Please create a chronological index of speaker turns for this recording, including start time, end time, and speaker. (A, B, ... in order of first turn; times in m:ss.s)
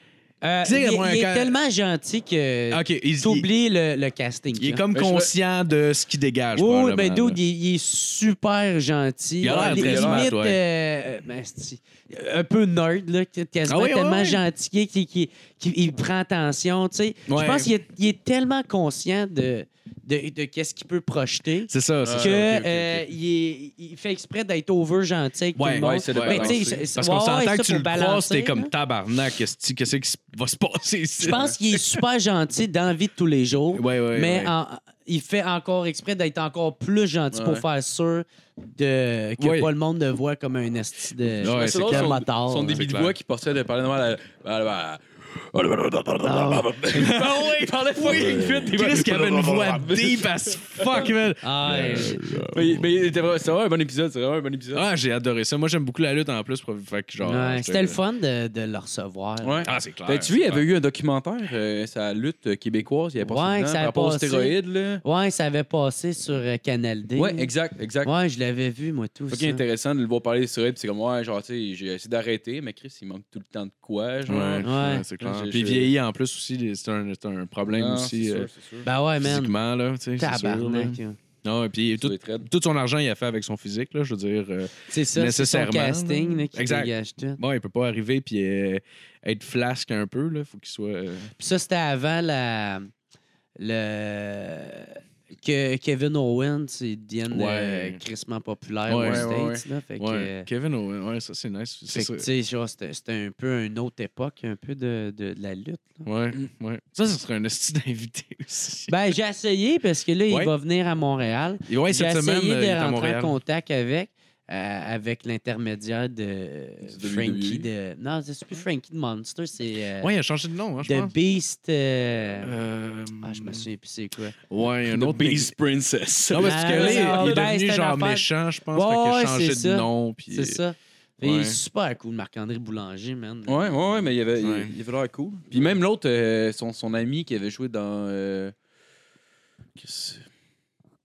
0:00.4-0:04.8 A
0:00.6-0:01.5 B
0:02.7-0:03.5 B
0:04.6-0:07.4 B
0:04.9-0:05.3 C
0:06.5-0:28.7 A
0:09.4-0:10.6 B
0:09.4-0:10.3 C
0:13.7-0:14.4 B
0:17.3-0:17.7 B
0:21.7-0:23.0 B
0:22.0-0:22.3 C
0:25.6-0:31.8 B
0:25.8-0:26.9 C
0:31.2-0:42.8 A
0:31.2-0:31.5 C
0:33.7-0:34.5 B
0:37.3-0:37.6 C
0:39.4-0:39.7 B
0:41.4-0:43.1 B
0:41.4-0:51.1 C
0:46.2-0:46.8 A
0:46.9-0:52.8 B
0:51.4-0:52.2 A
0:51.9-0:54.8 C
0:54.7-0:58.0 B
0:57.2-0:59.7 A
0:59.4-1:05.0 C
0:59.6-1:00.6 B
1:03.2-1:07.5 A
1:07.2-1:08.1 C
1:08.0-1:09.6 A
1:09.3-1:14.6 C
1:14.3-1:18.5 B
1:14.6-1:15.0 A
1:15.2-1:15.9 C
1:17.7-1:18.8 C
1:18.8-1:19.5 A
1:19.2-1:31.3 B
1:20.2-1:21.2 A
1:22.0-1:22.5 C
1:24.9-1:27.4 A
1:31.4-1:32.9 A
1:33.6-1:40.5 A
1:37.3-1:38.0 B
1:38.9-1:42.3 B
1:39.0-1:39.5 C
1:41.9-1:46.1 A
1:46.0-1:48.9 B
1:48.9-2:00.1 A
1:51.7-1:53.3 B
1:56.8-1:57.7 C
2:00.0-2:01.1 B
2:00.8-2:02.5 A
2:02.4-2:03.6 B
2:03.2-2:04.4 A
2:04.5-2:05.5 B
2:04.8-2:07.5 C
2:06.3-2:10.6 B
2:06.4-2:14.0 A
2:11.2-2:11.6 B
2:13.5-2:18.5 C
2:14.4-2:14.7 B
2:19.8-2:20.2 C